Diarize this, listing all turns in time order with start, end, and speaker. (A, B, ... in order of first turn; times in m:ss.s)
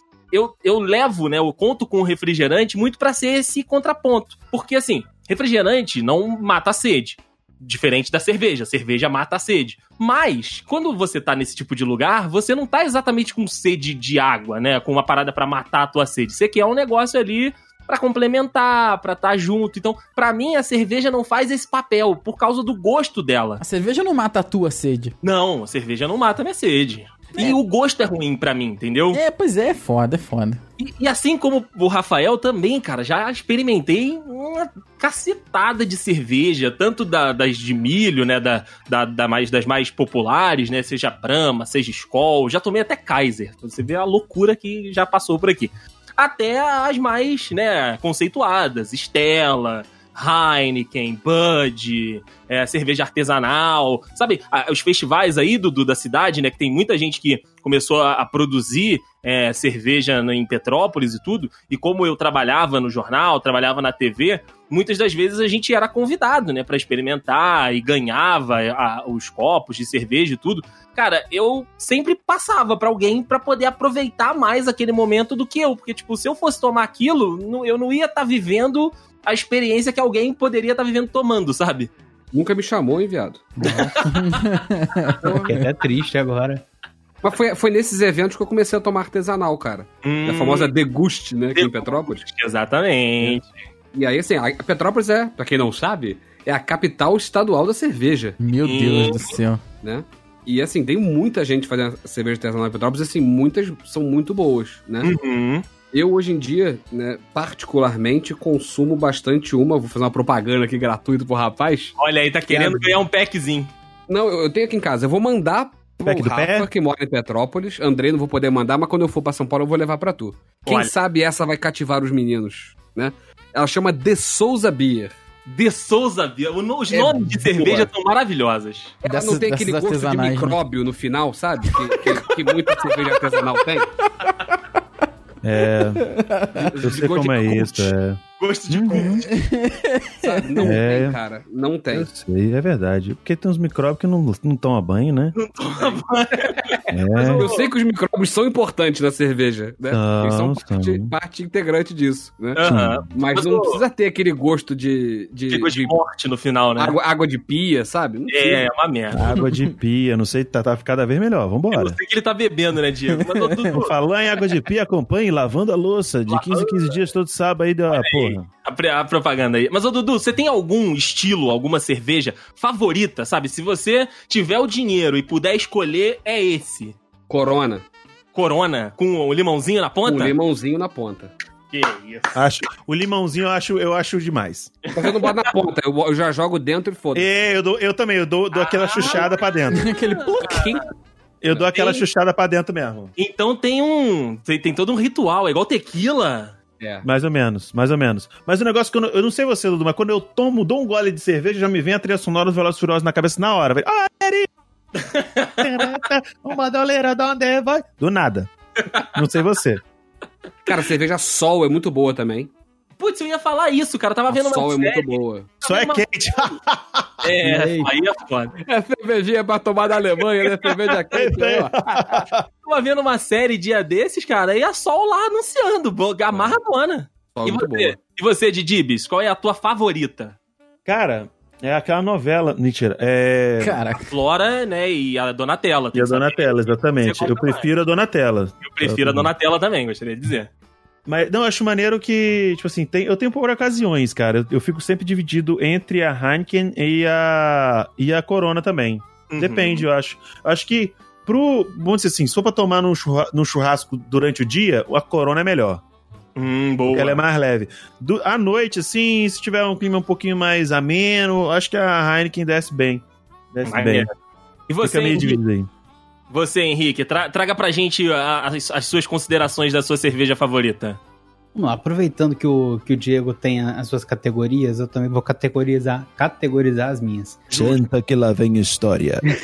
0:00.3-0:23.6 A
0:23.6-0:25.1 B
0:25.2-0:29.2 A
0:29.1-0:30.6 B
0:30.8-1:21.9 A
1:22.3-1:23.6 C
1:23.6-1:24.0 D
1:23.7-1:24.1 A
1:24.0-1:25.7 B
1:25.2-1:25.6 C
1:25.2-1:26.6 D
1:27.2-1:32.2 C
1:30.0-1:30.7 A
1:31.6-1:33.5 A
1:33.9-1:38.4 C
1:38.4-1:39.6 B
1:38.6-1:39.4 A
1:39.8-1:45.1 C
1:45.0-1:45.6 A
1:45.9-1:52.0 C
1:52.0-1:53.7 A
1:52.5-1:52.8 C
1:54.1-2:05.2 C
1:56.0-1:56.7 E
2:00.7-2:00.9 A
2:05.5-2:09.0 A
2:06.9-2:07.9 C
2:09.0-2:13.9 C
2:09.0-2:10.6 B
2:11.9-2:13.0 B
2:15.4-2:16.0 E
2:16.0-2:16.7 B
2:16.6-2:17.9 C
2:16.8-2:19.2 E
2:18.4-2:19.3 A
2:19.3-2:20.7 B
2:20.2-2:22.1 C
2:20.6-2:21.2 E
2:21.9-2:25.4 E
2:25.4-2:27.7 A
2:26.9-2:27.5 E
2:27.3-2:36.0 C
2:29.9-2:31.1 E
2:32.6-2:33.8 A
2:32.6-2:33.0 E
2:35.5-2:37.0 A
2:36.8-2:38.7 C
2:38.3-2:39.4 A
2:39.1-2:42.0 E
2:41.7-2:44.0 A
2:43.3-2:43.6 B
2:43.7-2:48.5 E
2:46.3-2:47.0 A
2:47.9-2:57.0 A
2:57.3-2:57.8 C
2:58.3-3:00.4 A
3:00.0-3:01.3 C
3:01.7-3:02.4 A
3:02.4-3:04.8 E
3:04.9-3:05.5 A
3:04.9-3:07.3 C
3:07.1-3:09.9 E
3:08.5-3:10.8 A
3:09.7-3:10.8 B
3:11.4-3:13.1 E
3:11.6-3:12.0 A
3:13.2-3:16.6 A
3:16.8-3:17.1 C
3:17.0-3:24.5 E
3:25.0-3:26.0 A
3:25.6-3:29.8 E
3:30.7-3:32.5 C
3:33.0-3:36.5 A
3:34.3-3:35.5 C
3:35.6-3:37.2 E
3:37.2-3:38.6 A
3:37.4-3:37.9 D
3:38.6-3:41.8 C
3:40.4-3:41.0 A
3:41.1-3:42.4 E
3:42.6-3:50.4 A
3:47.3-3:48.0 C
3:50.9-3:53.8 E
3:53.6-3:54.1 B
3:54.1-3:57.7 A
3:55.9-3:59.3 E
3:58.6-4:00.5 A
4:01.1-4:15.8 E
4:09.3-4:09.9 A
4:16.4-4:17.2 A
4:16.9-4:24.1 E
4:23.7-4:24.1 A
4:24.7-4:25.4 A
4:24.8-4:25.7 E
4:26.3-4:31.0 A
4:31.6-4:37.5 D
4:37.5-4:37.8 A
4:37.5-4:39.2 E